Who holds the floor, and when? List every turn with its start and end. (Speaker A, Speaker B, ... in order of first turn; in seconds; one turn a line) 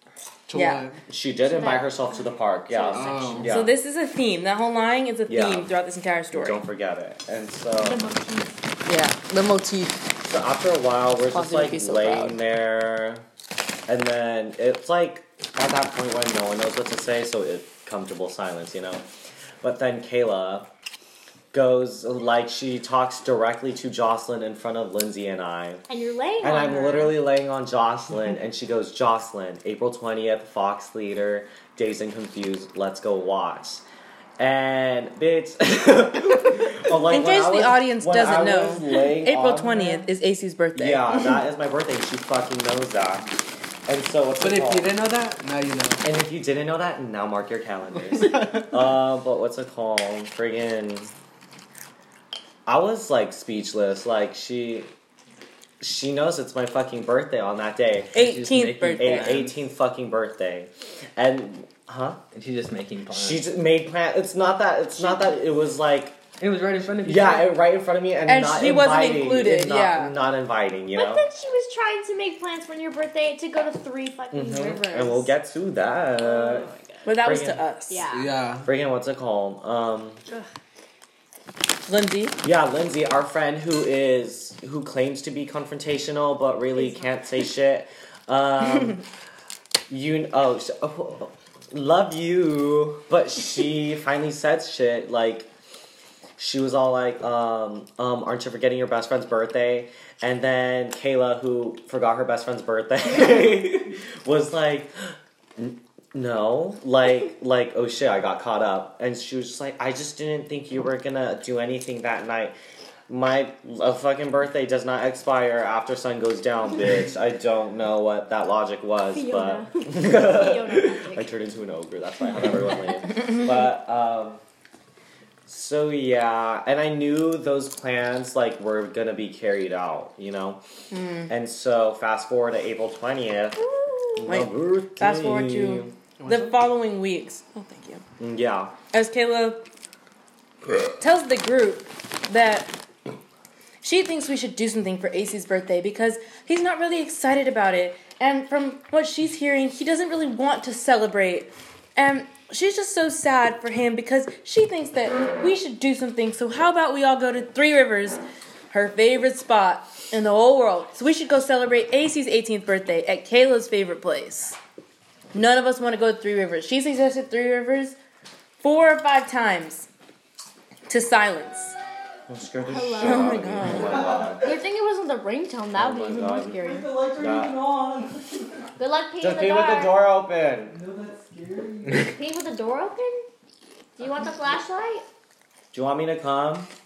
Speaker A: 0.5-1.0
Speaker B: 0.5-0.9
Speaker C: 1.1-3.7
Speaker D: 1.4-3.5
Speaker A: 2.9-3.5
Speaker B: 3.5-6.6
Speaker C: 5.3-5.7
Speaker C: 6.3-8.1
Speaker D: 7.8-8.6
Speaker B: 8.9-10.0
Speaker C: 10.2-13.2
Speaker B: 11.2-12.4
Speaker C: 13.9-19.1
Speaker C: 19.6-20.7
Speaker C: 21.5-25.8
Speaker D: 25.9-27.2
Speaker C: 26.4-33.8
Speaker C: 34.4-40.1
Speaker B: 37.0-41.1
Speaker C: 40.8-43.3
Speaker C: 43.9-45.0
Speaker A: 44.4-46.0
Speaker C: 46.0-51.1
Speaker C: 52.7-54.9
Speaker C: 55.8-58.1
Speaker B: 58.1-59.4
Speaker E: 58.1-59.6
Speaker C: 59.0-62.2
Speaker E: 62.3-63.5
Speaker C: 63.1-66.2
Speaker D: 65.0-65.3
Speaker E: 66.4-67.6
Speaker C: 67.0-71.2
Speaker B: 68.3-70.2
Speaker D: 71.0-75.3
Speaker C: 74.3-76.7
Speaker D: 76.2-77.1
Speaker B: 77.0-78.0
Speaker C: 77.2-77.6
Speaker D: 77.9-78.3
Speaker A: 78.1-78.7
Speaker C: 78.6-80.2
Speaker B: 81.9-82.4
Speaker C: 82.4-89.0
Speaker D: 86.7-87.1
Speaker C: 89.9-95.5
Speaker C: 96.4-112.6
Speaker C: 113.1-124.4
Speaker D: 119.1-121.3
Speaker C: 125.5-130.6
Speaker B: 130.9-131.3
Speaker C: 131.3-135.9
Speaker B: 134.3-138.0
Speaker A: 136.2-136.6
Speaker C: 138.2-138.7
Speaker B: 138.9-139.6
Speaker B: 141.0-142.7
Speaker B: 143.8-164.6
Speaker B: 165.3-168.0
Speaker B: 168.6-169.9
Speaker B: 170.9-171.8
Speaker C: 172.3-174.5
Speaker D: 172.7-173.5
Speaker B: 173.0-174.0
Speaker D: 174.4-176.9
Speaker C: 175.8-176.6
Speaker E: 176.6-178.7
Speaker C: 177.2-177.6
Speaker D: 178.8-180.1
Speaker C: 179.2-180.8
Speaker E: 180.8-182.2
Speaker A: 180.8-182.0
Speaker D: 182.0-183.3
Speaker D: 184.0-185.1
Speaker C: 185.7-186.7